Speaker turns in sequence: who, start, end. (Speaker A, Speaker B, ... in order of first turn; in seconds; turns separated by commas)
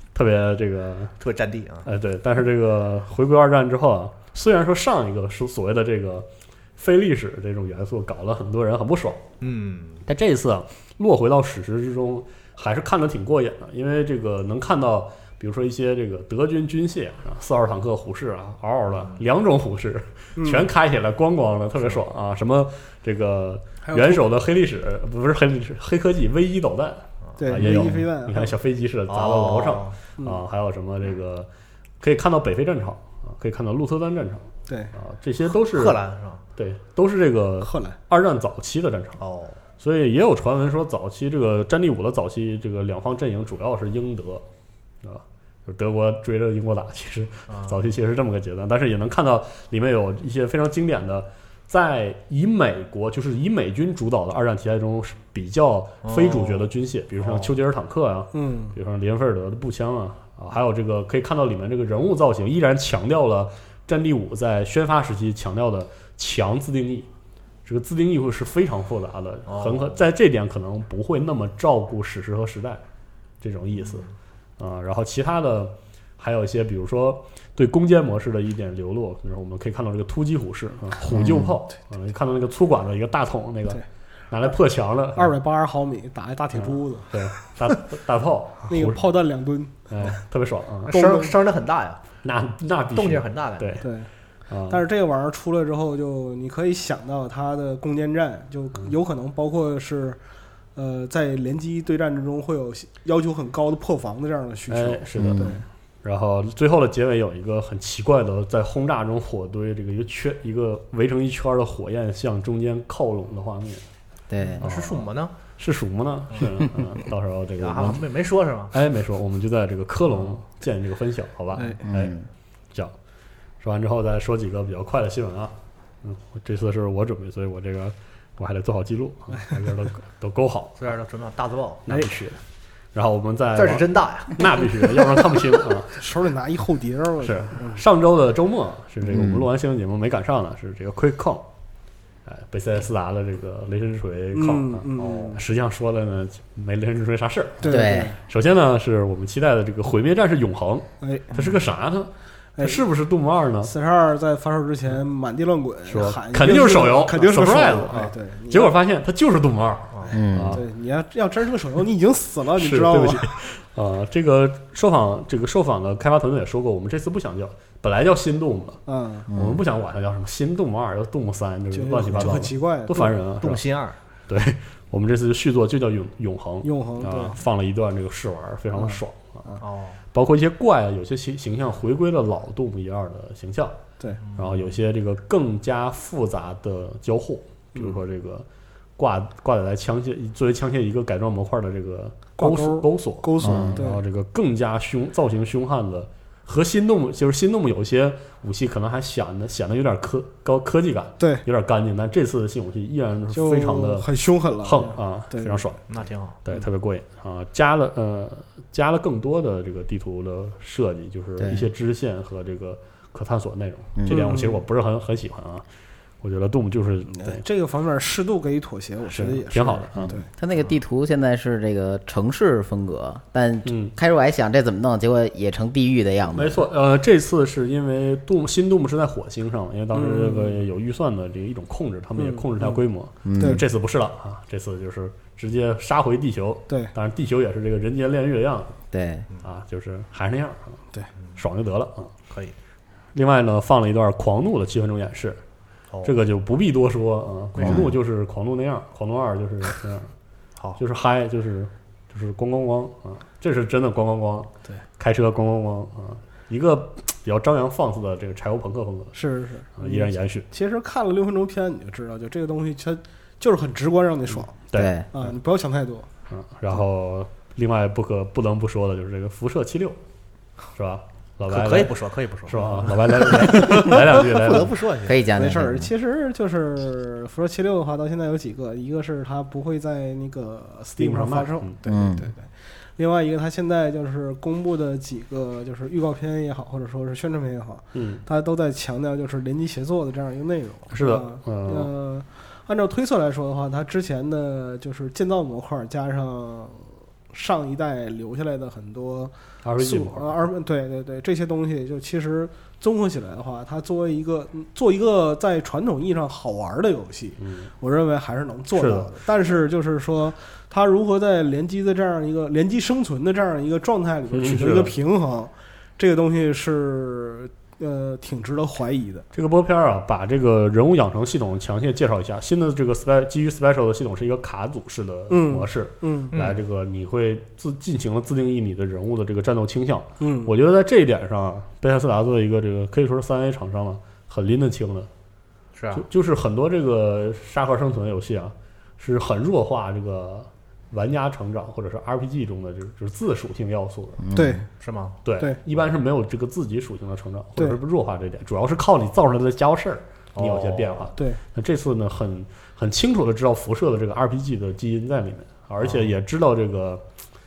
Speaker A: 0.1-1.1, Speaker B: 1.2-1.9, Speaker A: 1.8-9.3, Speaker B: 9.4-10.0, Speaker A: 10.1-31.5, Speaker C: 20.4-20.7, Speaker B: 23.8-24.2, Speaker C: 27.4-28.5, Speaker B: 29.1-30.0, Speaker A: 32.0-36.0, Speaker B: 35.5-36.4, Speaker A: 36.6-39.2, Speaker C: 37.6-38.0, Speaker B: 39.2-39.6, Speaker A: 39.8-44.5, Speaker A: 45.0-67.1, Speaker B: 47.5-47.8, Speaker B: 56.0-56.7, Speaker B: 57.2-57.5, Speaker C: 58.3-58.8, Speaker A: 67.6-72.8, Speaker B: 69.5-69.9, Speaker A: 73.4-74.1, Speaker A: 74.6-85.3, Speaker D: 81.1-81.5, Speaker C: 85.2-87.8, Speaker A: 86.5-89.1, Speaker C: 88.7-90.1, Speaker A: 89.9-90.9, Speaker B: 90.9-92.0, Speaker C: 90.9-91.3, Speaker A: 92.2-93.9, Speaker B: 93.0-93.8, Speaker C: 93.8-94.1, Speaker A: 94.5-94.8, Speaker C: 94.7-100.2, Speaker C: 100.8-105.6, Speaker A: 104.7-113.9, Speaker D: 105.2-105.6, Speaker D: 114.3-114.6, Speaker B: 114.6-115.3, Speaker A: 114.6-118.0, Speaker B: 117.6-118.8, Speaker A: 118.7-122.2, Speaker C: 121.5-121.8, Speaker D: 121.8-122.2, Speaker A: 123.6-130.9, Speaker B: 130.8-131.9, Speaker A: 131.9-132.4, Speaker A: 132.9-136.0, Speaker B: 133.6-134.8, Speaker C: 135.9-137.8, Speaker A: 137.2-141.5, Speaker D: 139.1-139.5, Speaker A: 142.2-153.7, Speaker C: 144.3-145.4, Speaker C: 147.6-148.2, Speaker D: 147.7-148.2, Speaker C: 151.0-151.4, Speaker C: 152.6-152.8, Speaker C: 153.6-158.8, Speaker A: 155.9-160.6, Speaker D: 160.1-160.6, Speaker C: 160.5-163.3, Speaker A: 162.6-173.6, Speaker C: 168.9-169.3, Speaker D: 169.3-169.6, Speaker C: 171.7-173.1, Speaker B: 173.4-174.0, Speaker A: 174.3-179.5, Speaker C: 176.6-177.4, Speaker C: 178.8-179.6, Speaker B: 179.6-180.0, Speaker A: 180.1-183.8, Speaker B: 184.2-184.8, Speaker A: 184.4-188.5, Speaker A: 189.0-204.1, Speaker C: 192.4-194.0, Speaker D: 193.4-193.8, Speaker C: 203.3-205.6, Speaker A: 204.6-215.6, Speaker B: 205.9-206.4, Speaker D: 211.4-211.7, Speaker D: 214.0-214.3, Speaker C: 214.1-214.6, Speaker A: 216.2-217.4, Speaker C: 217.1-220.3, Speaker A: 219.1-220.2, Speaker D: 220.0-226.6, Speaker A: 223.6-223.9, Speaker A: 226.3-238.8, Speaker C: 229.9-230.6, Speaker C: 232.2-232.7, Speaker D: 233.2-233.6, Speaker C: 233.4-233.6, Speaker D: 238.9-239.2, Speaker A: 239.4-240.8, Speaker A: 241.4-242.1, Speaker B: 242.3-242.6, Speaker A: 243.1-245.4, Speaker A: 246.0-250.1, Speaker D: 247.6-247.9, Speaker A: 250.8-259.2, Speaker C: 259.1-264.6, Speaker A: 259.8-260.5, Speaker A: 264.7-265.3, Speaker D: 264.7-265.1, Speaker C: 265.1-266.1, Speaker A: 266.3-270.0, Speaker A: 270.8-274.7, Speaker B: 271.5-275.2, Speaker C: 273.5-273.9, Speaker D: 275.1-275.9, Speaker C: 275.4-319.3, Speaker A: 281.0-281.8, Speaker D: 281.9-282.3, Speaker A: 287.9-288.2, Speaker A: 290.9-291.9, Speaker A: 299.6-300.4, Speaker A: 307.4-307.7, Speaker A: 308.8-309.1, Speaker A: 314.3-314.9, Speaker A: 319.3-335.1, Speaker C: 325.3-326.3, Speaker B: 326.3-326.6, Speaker C: 330.2-330.5, Speaker B: 335.7-336.0, Speaker A: 335.9-344.2, Speaker D: 344.2-344.6, Speaker C: 344.3-344.7, Speaker B: 344.8-345.2, Speaker A: 345.2-357.0, Speaker B: 350.4-351.0, Speaker C: 351.2-351.4, Speaker B: 355.8-356.1